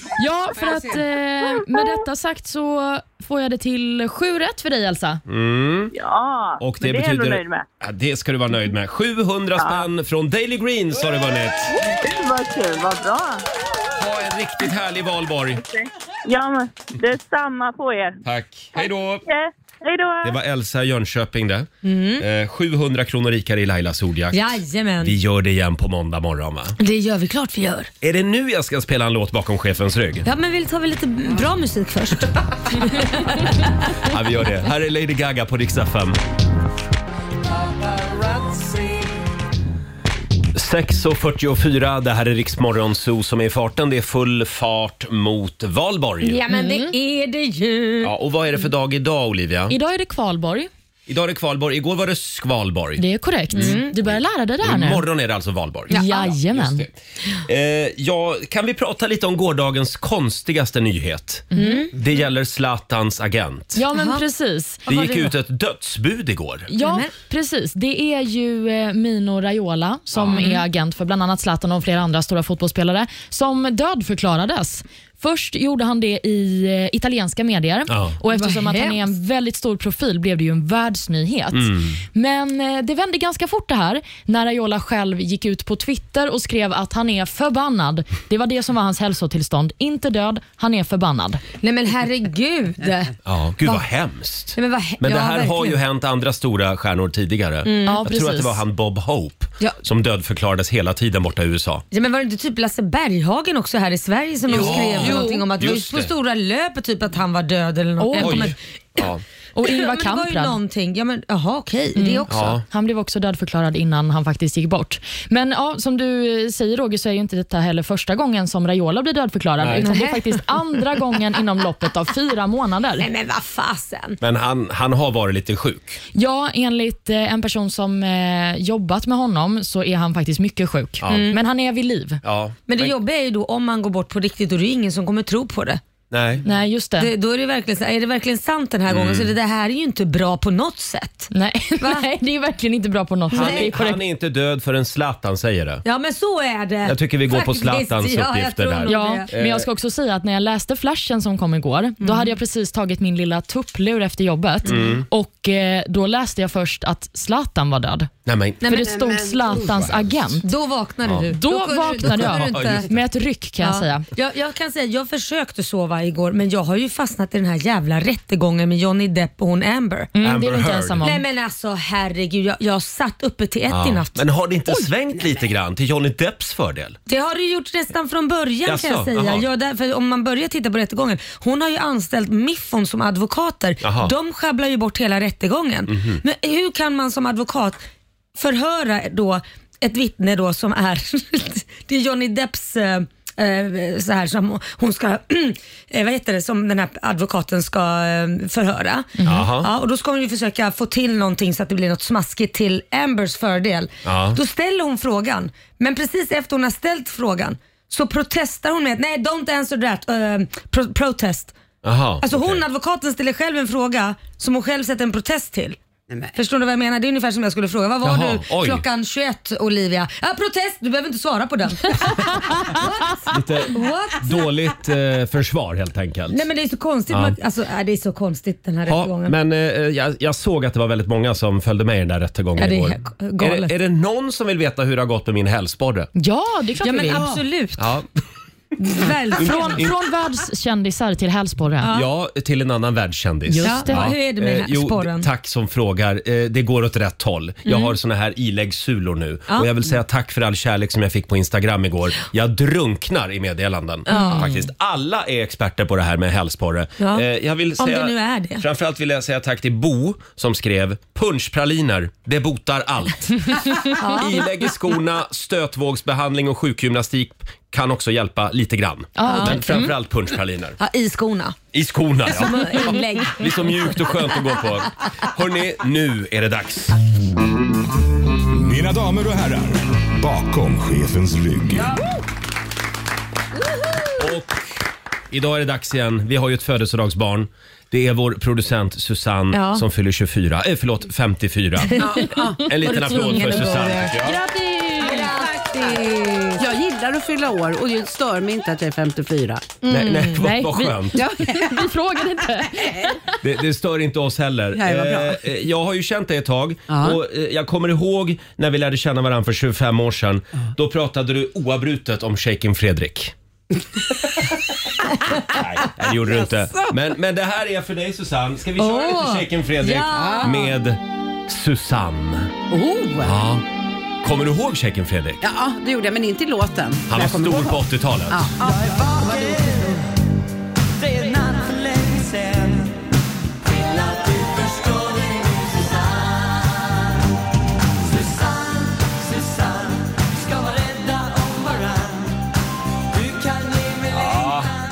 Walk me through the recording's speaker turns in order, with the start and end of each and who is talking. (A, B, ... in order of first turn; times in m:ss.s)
0:00.2-0:05.2 A
0:00.6-0:01.0 B
0:01.6-0:02.0 C
0:05.3-0:05.9 D
0:05.9-0:07.6 C
0:06.6-0:11.7 D
0:09.6-0:09.8 C
0:11.8-0:13.4 C
0:14.0-0:15.6 D
0:15.6-0:18.2 C
0:18.2-0:19.2 D
0:18.8-0:20.3 C
0:20.2-0:26.8 D
0:21.8-0:22.2 E
0:24.3-0:25.2 E
0:26.8-0:27.9 E
0:28.0-0:30.3 D
0:30.2-0:33.9 E
0:34.0-0:36.2 D
0:40.5-0:46.4 D
0:46.2-0:48.1 E
0:46.5-0:47.0 A
0:48.0-0:49.8 D
0:49.7-0:50.7 A
0:51.1-0:56.9 D
0:53.0-0:55.1 A
0:53.5-0:53.9 E
0:55.9-0:56.9 A
0:57.4-1:03.8 D
1:01.5-1:01.8 A
1:01.5-1:01.9 E
1:03.8-1:05.0 A
1:03.9-1:04.2 E
1:04.9-1:05.3 E
1:04.9-1:06.7 D
1:06.7-1:31.4 A
1:06.8-1:07.1 E
1:10.1-1:10.4 D
1:10.3-1:10.6 E
1:17.9-1:18.2 D
1:18.3-1:19.0 E
1:21.5-1:22.0 D
1:31.6-1:33.8 E
1:33.3-1:41.8 D
1:34.6-1:35.8 E
1:37.6-1:38.0 E
1:37.9-1:38.6 A
1:41.9-1:48.6 E
1:44.5-1:46.1 D
1:45.0-1:45.5 A
1:48.0-1:48.5 A
1:48.2-1:49.2 D
1:49.6-1:50.6 A
1:49.6-1:52.6 E
1:52.0-2:03.1 A
1:52.3-1:52.6 D
1:59.6-1:59.9 D
1:59.8-2:00.5 E
2:03.0-2:04.2 E
2:04.2-2:06.0 D
2:06.2-2:12.2 A
2:11.0-2:11.3 D
2:11.1-2:11.4 E
2:12.2-2:13.0 D
2:12.7-2:15.8 E
2:16.1-2:16.4 D
2:16.4-2:17.1 A
2:17.0-2:22.1 E
2:18.9-2:19.3 D
2:21.3-2:24.0 A
2:23.3-2:23.8 E
2:23.3-2:25.8 D
2:25.8-2:29.3 E
2:26.8-2:29.7 D
2:28.9-2:38.1 A
2:32.0-2:32.3 E
2:34.7-2:35.1 D
2:38.3-2:38.6 D
2:38.6-2:40.5 A
2:38.6-2:38.9 E
2:38.8-2:39.8 B
2:40.4-2:42.9 E
2:41.3-2:44.1 A
2:42.1-2:42.9 D
2:43.6-2:50.1 E
2:50.1-2:51.2 A
2:50.2-2:51.0 D
2:51.0-2:54.8 E
2:53.7-2:57.0 D
2:57.1-3:07.8 E
2:58.7-2:59.5 D
3:03.8-3:04.1 D
3:05.9-3:06.2 D
3:08.4-3:31.6 E
3:19.2-3:19.5 A
3:19.2-3:19.7 D
3:24.0-3:24.4 D
3:31.8-3:32.6 D
3:32.2-3:35.8 E
3:36.3-3:44.3 E
3:38.0-3:38.8 D
3:43.3-3:46.4 D
3:46.3-3:49.4 E
3:47.1-3:47.4 D
3:48.9-3:56.1 D
3:52.6-3:53.7 E
3:56.2-3:57.4 A
3:56.8-3:57.9 E
3:57.8-3:58.1 D
3:58.8-3:59.8 E
3:59.4-4:01.9 A
3:59.4-4:00.0 D
4:01.8-4:02.1 E
4:01.9-4:30.8 D
4:03.5-4:04.2 A
4:03.6-4:05.3 E
4:07.7-4:07.9 E
4:14.1-4:14.5 E
4:14.1-4:14.4 A
4:17.0-4:17.2 E
4:17.8-4:18.6 E
4:23.9-4:24.4 E
4:29.2-4:29.9 A
4:29.2-4:29.9 E
4:30.8-4:31.6 E
4:31.7-4:37.0 D
4:32.3-4:34.1 E
4:38.5-4:41.9 F
4:44.2-4:44.6 D
4:45.3-4:52.1 D
4:49.5-4:49.8 E
4:51.9-4:54.2 E
4:52.0-4:52.6 B
4:52.6-4:54.4 D
4:54.2-4:55.3 A
4:55.0-4:56.6 E
4:55.0-4:56.0 B
4:56.6-4:59.7 B
4:59.8-5:00.4 E
4:59.9-5:01.2 D
5:00.3-5:03.3 A
5:01.2-5:01.9 B
5:02.8-5:03.1 B
5:03.4-5:13.3 D
5:04.7-5:05.5 B
5:06.9-5:07.2 B
5:15.8-5:22.5 D
5:16.2-5:16.9 B
5:18.8-5:20.6 E
5:20.1-5:20.6 B
5:22.7-5:23.4 B
5:23.2-5:23.6 D
5:24.2-5:25.4 D
5:25.4-5:29.9 B
5:27.1-5:28.5 D
5:29.0-5:30.0 E
5:44.2-5:44.7 D